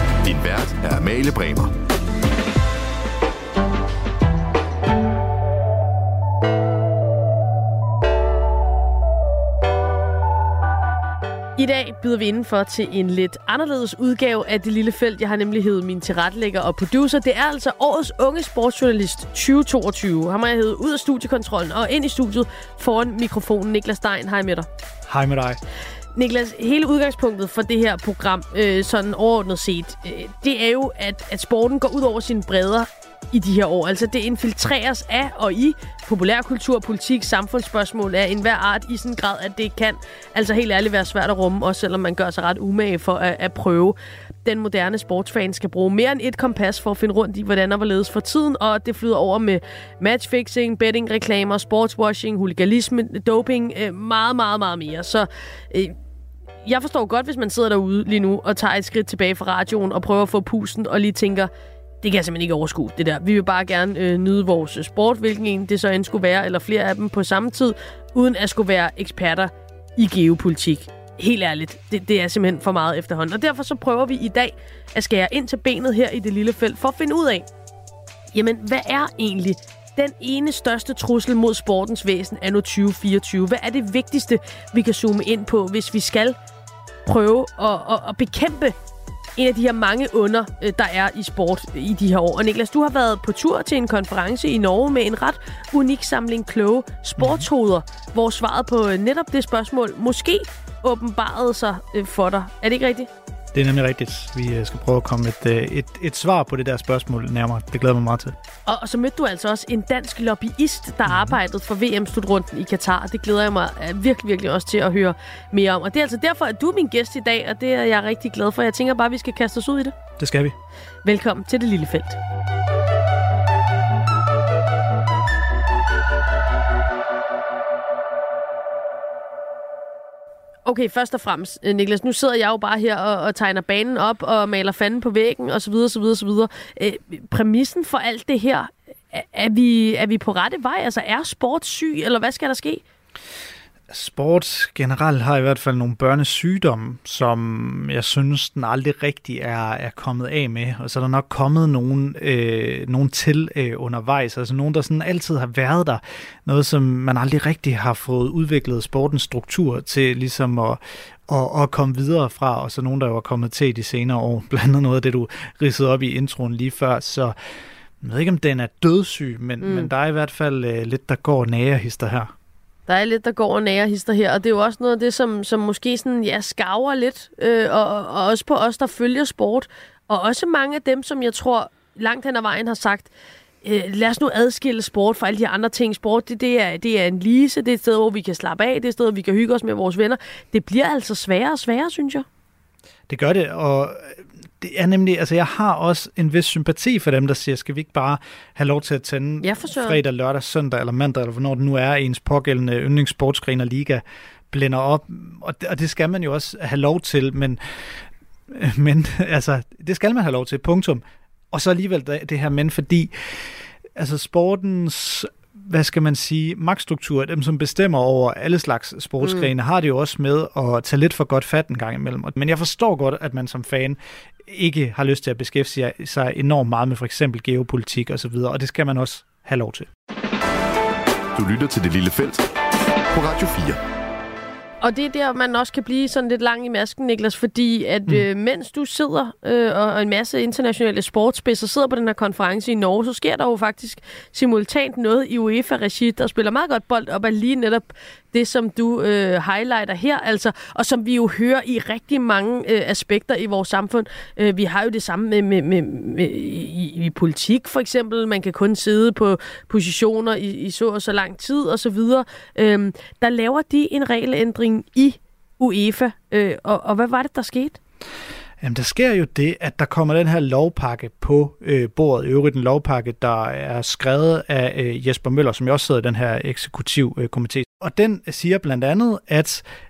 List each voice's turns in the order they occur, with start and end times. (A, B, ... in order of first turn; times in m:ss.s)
0:00.2-0:01.7 A
0:11.6-0:24.7 B
0:25.1-0:25.6 C
0:26.2-0:56.0 B
0:56.6-1:01.5 B
1:02.0-1:17.4 B
1:18.3-1:26.4 B
1:27.0-1:28.7 B
1:29.4-1:43.1 B
1:37.2-1:37.4 C
1:43.5-1:48.3 C
1:48.6-1:59.9 B
1:51.1-1:51.4 C
2:00.2-2:00.6 C
2:01.0-2:02.2 B
2:10.6-2:22.8 B
2:23.9-2:47.3 C
2:48.0-2:52.3 C
2:49.6-2:49.9 B
2:52.9-3:03.1 B
3:03.6-3:12.2 B
3:13.1-3:49.9 C
3:19.4-3:20.0 B
3:39.2-3:39.5 B
3:51.3-3:52.4 A
3:53.1-3:53.8 A
3:54.8-4:27.8 B
4:28.6-4:39.6 C